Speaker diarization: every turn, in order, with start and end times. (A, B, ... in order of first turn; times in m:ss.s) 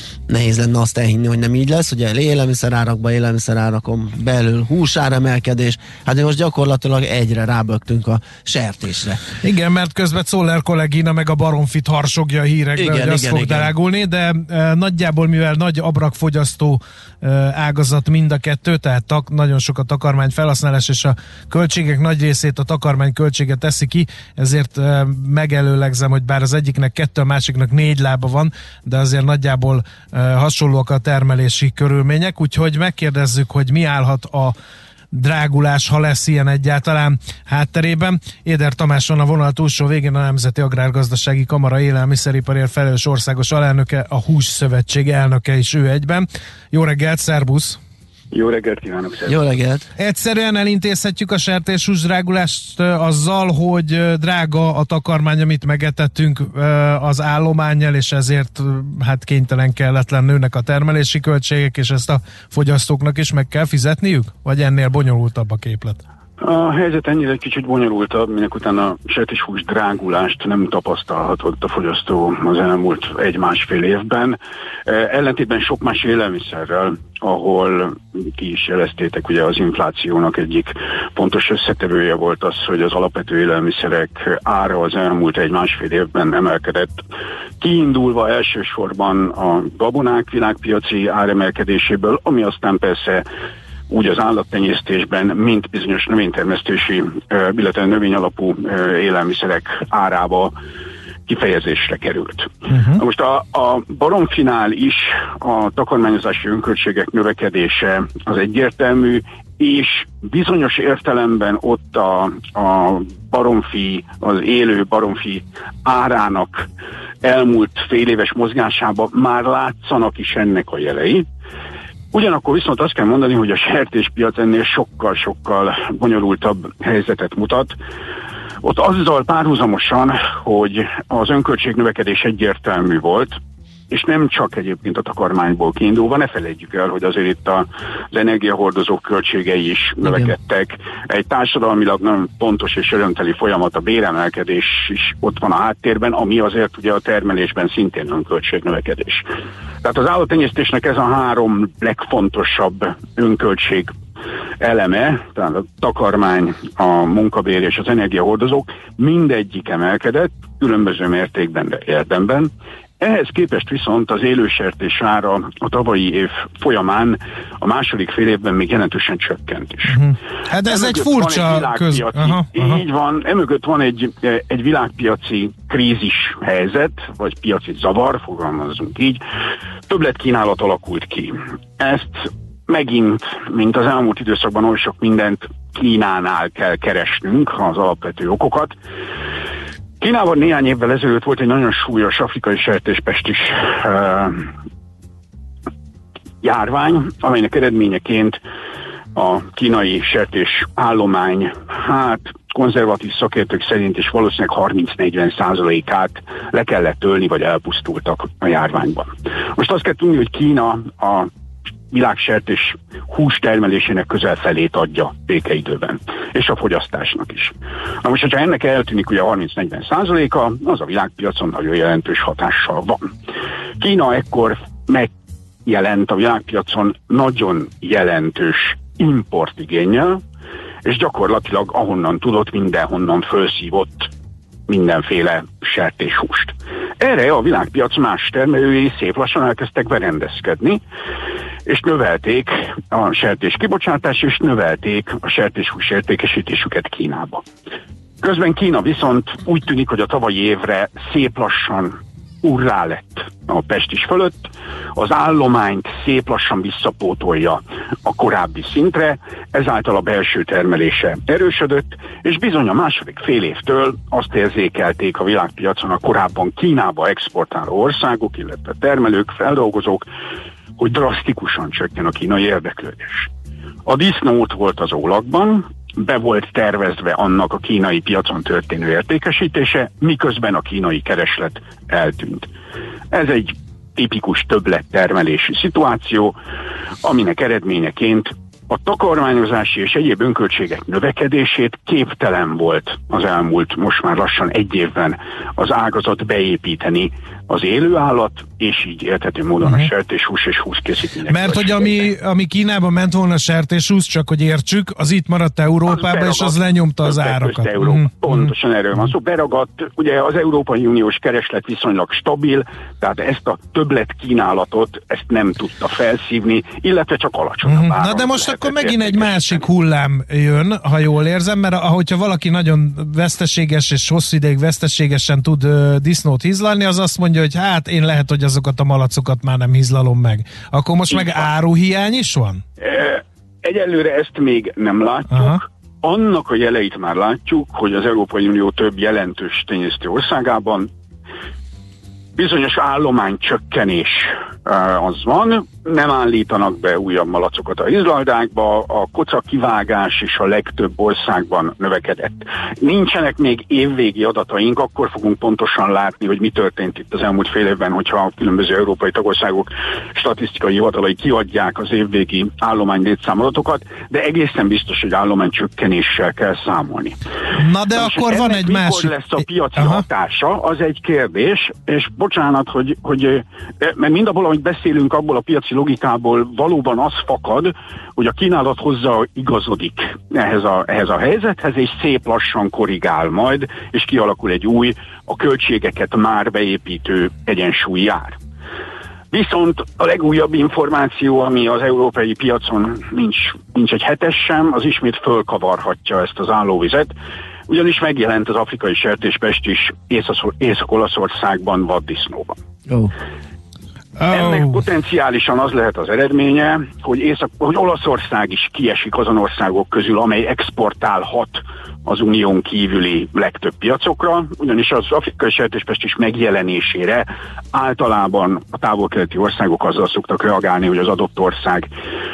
0:00.3-0:09.2 A
0:09.4-0:34.6 B
0:12.8-0:13.7 A
0:35.1-0:47.8 B
0:48.3-0:49.4 C
0:49.3-0:49.9 A
0:50.0-1:06.0 B
1:06.4-1:27.0 C
1:27.6-1:33.2 C
1:33.9-1:40.6 C
1:41.3-1:56.6 C
1:42.7-1:43.0 B
1:57.2-2:01.3 C
2:02.1-2:07.7 C
2:08.6-2:13.4 C
2:13.9-2:29.3 C
2:29.8-2:33.9 C
2:34.6-2:50.0 C
2:49.9-2:52.8 B
2:50.6-2:59.2 C
2:59.9-3:08.8 C
3:10.0-3:14.5 C
3:16.4-3:18.4 C
3:19.1-3:31.3 C
3:31.9-3:43.1 C
3:43.8-3:45.1 C
3:45.6-3:50.2 C
3:50.8-3:54.1 C
3:54.7-4:00.8 C
4:01.6-4:07.5 C
4:08.2-4:30.0 C
4:30.8-4:33.3 C
4:33.8-4:42.5 C
4:43.1-4:46.4 C
4:47.0-5:02.1 C
4:59.6-4:59.9 B
5:01.3-5:08.5 B
5:05.9-5:19.7 C
5:17.6-5:32.6 B
5:31.1-5:31.5 C
5:32.8-5:40.9 C
5:35.3-5:35.6 B
5:42.4-6:07.2 C
6:07.6-6:10.0 B
6:07.9-6:28.4 C
6:29.3-6:37.1 C
6:37.7-6:42.6 C
6:44.2-6:44.8 B
6:44.3-7:01.9 C